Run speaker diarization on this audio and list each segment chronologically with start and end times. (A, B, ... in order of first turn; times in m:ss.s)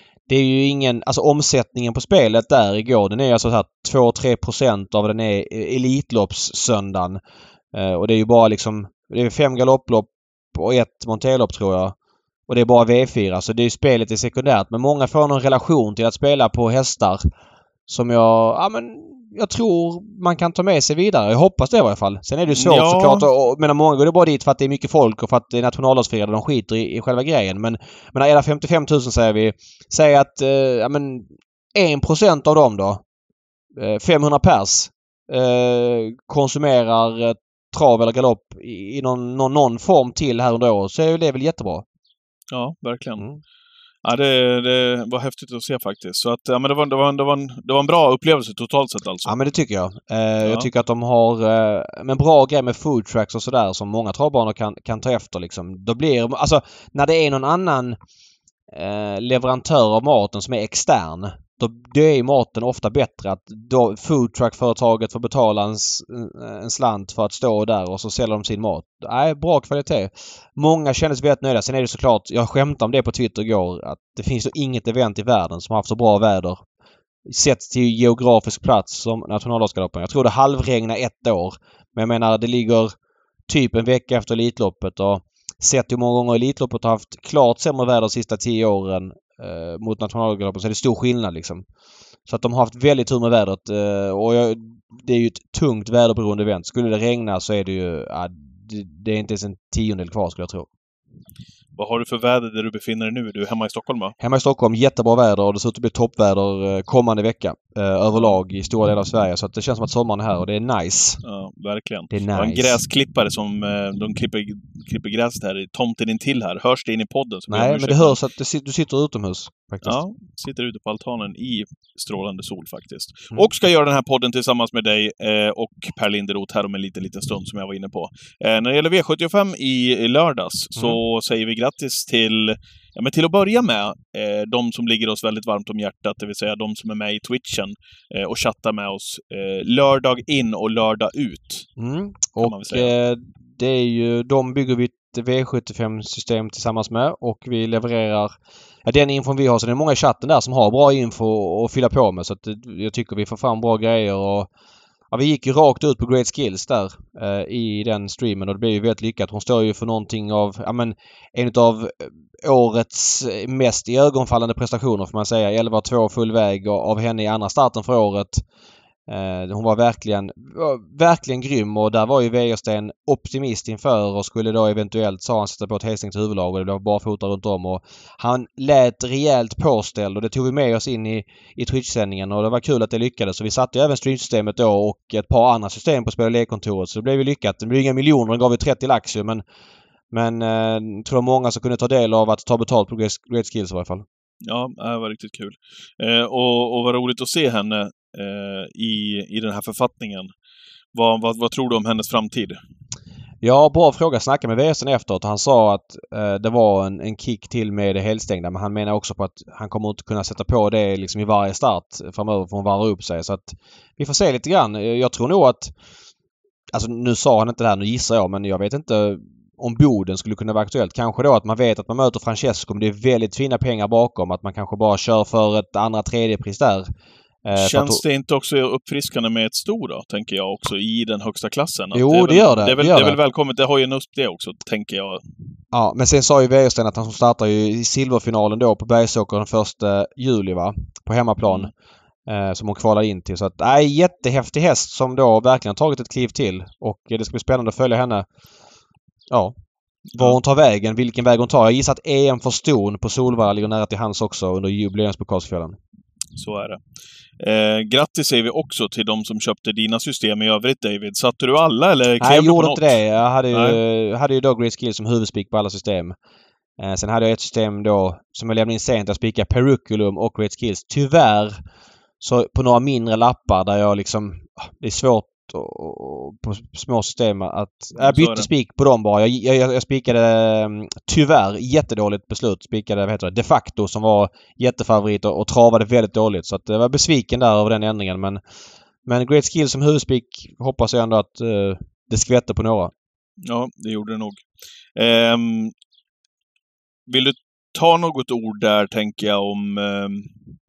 0:00.3-0:07.2 A
0:07.7-0:12.0 A
0:12.5-0:17.3 A
0:17.9-0:33.0 A
0:22.5-0:23.3 B
0:33.8-0:41.8 A
0:42.5-0:43.3 B
0:44.0-0:49.4 B
0:49.3-0:58.0 A
0:50.4-0:50.7 B
0:58.7-1:16.6 A
1:17.3-1:22.9 A
1:23.5-1:31.6 A
1:32.3-1:40.7 A
1:41.8-1:44.2 B
1:44.2-1:51.2 A
1:51.2-1:58.2 B
1:52.1-1:52.8 A
1:57.5-2:00.0 A
1:59.8-2:21.7 B
2:21.8-2:34.5 A
2:22.4-2:22.9 B
2:35.1-2:48.4 A
2:49.1-3:09.4 A
3:10.1-3:14.0 A
3:14.4-3:20.3 B
3:20.9-3:22.6 B
3:23.4-3:35.7 A
3:36.7-3:46.9 A
3:47.4-3:48.0 A
3:47.5-3:55.2 B
3:51.9-3:53.2 A
3:55.7-4:01.7 A
4:01.5-4:01.7 B
4:02.3-4:08.3 A
4:10.1-4:10.4 B
4:10.2-4:15.8 A
4:16.4-4:16.8 B
4:17.4-4:23.0 B
4:22.2-4:26.2 A
4:23.5-4:23.8 B
4:26.8-4:31.6 A
4:32.2-4:48.4 A
4:38.0-4:38.5 B
4:49.1-4:52.9 A
4:53.4-4:55.7 B
4:57.1-5:00.4 B